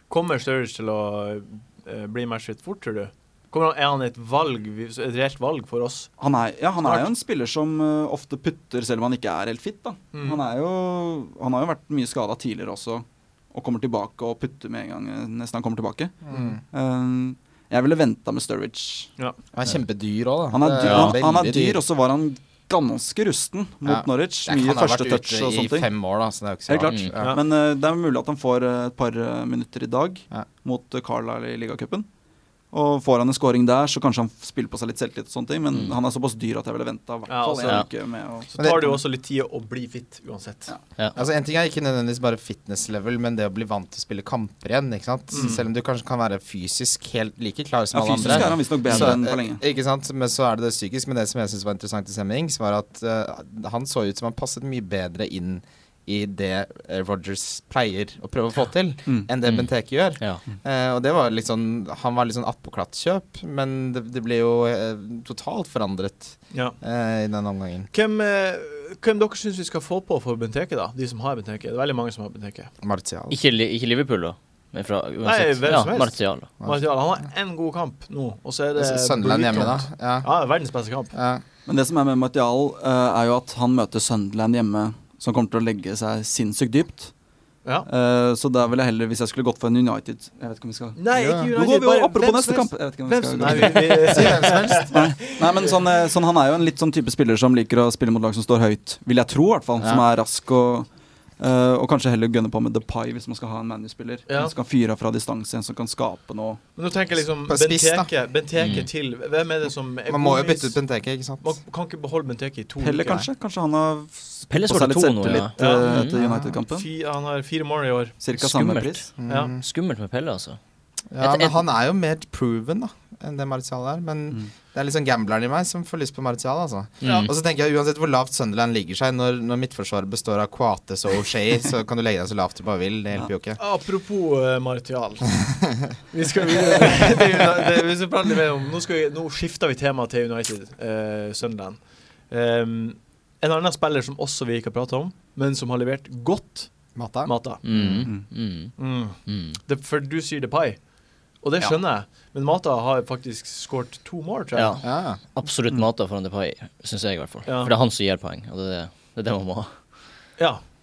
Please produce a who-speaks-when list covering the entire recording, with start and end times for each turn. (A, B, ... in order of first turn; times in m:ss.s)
0:00.1-0:06.1 A
0:06.2-0:19.1 B
0:06.8-0:07.1 A
0:10.1-0:10.4 A
0:16.3-0:16.6 C
0:19.5-0:21.8 C
0:20.5-0:25.9 B
0:20.8-0:21.2 D
0:23.8-0:27.3 C
0:26.7-0:32.1 B
0:26.9-0:27.1 D
0:32.7-0:38.5 B
0:37.3-0:37.9 A
0:38.5-0:40.7 A
0:38.6-0:39.0 C
0:41.2-1:07.9 C
0:45.3-0:45.6 A
0:47.9-0:49.6 B
0:48.3-0:49.1 D
0:59.4-1:00.4 D
1:06.5-1:06.8 A
1:07.9-1:12.7 A
1:12.8-1:13.4 C
1:13.3-1:16.5 D
1:15.2-1:21.2 A
1:18.8-1:20.3 C
1:21.1-1:21.4 C
1:21.7-1:27.1 B
1:27.9-1:31.0 B
1:31.0-1:35.7 A
1:31.1-1:31.5 C
1:31.5-1:40.9 B
1:34.0-1:35.0 C
1:41.4-1:46.6 B
1:44.3-1:44.5 A
1:46.8-1:50.8 A
1:47.5-1:48.1 C
1:48.6-1:48.9 D
1:50.1-1:51.6 C
1:51.4-1:53.3 A
1:52.8-1:56.9 B
1:54.5-1:56.2 D
1:55.6-1:56.0 A
1:56.2-1:56.5 C
1:56.7-1:58.2 A
1:58.2-1:59.0 B
1:58.4-2:00.6 D
1:59.2-1:59.6 C
1:59.3-1:59.5 A
2:01.1-2:13.6 C
2:01.2-2:01.6 D
2:07.0-2:07.3 D
2:07.0-2:07.3 A
2:13.6-2:15.3 A
2:16.1-2:21.8 A
2:22.3-2:26.7 A
2:27.0-2:28.1 C
2:27.2-2:27.6 A
2:27.6-2:28.7 D
2:28.8-2:30.8 A
2:29.3-2:29.6 D
2:31.4-2:34.8 A
2:34.5-2:39.7 D
2:34.8-2:35.2 C
2:37.5-2:37.7 A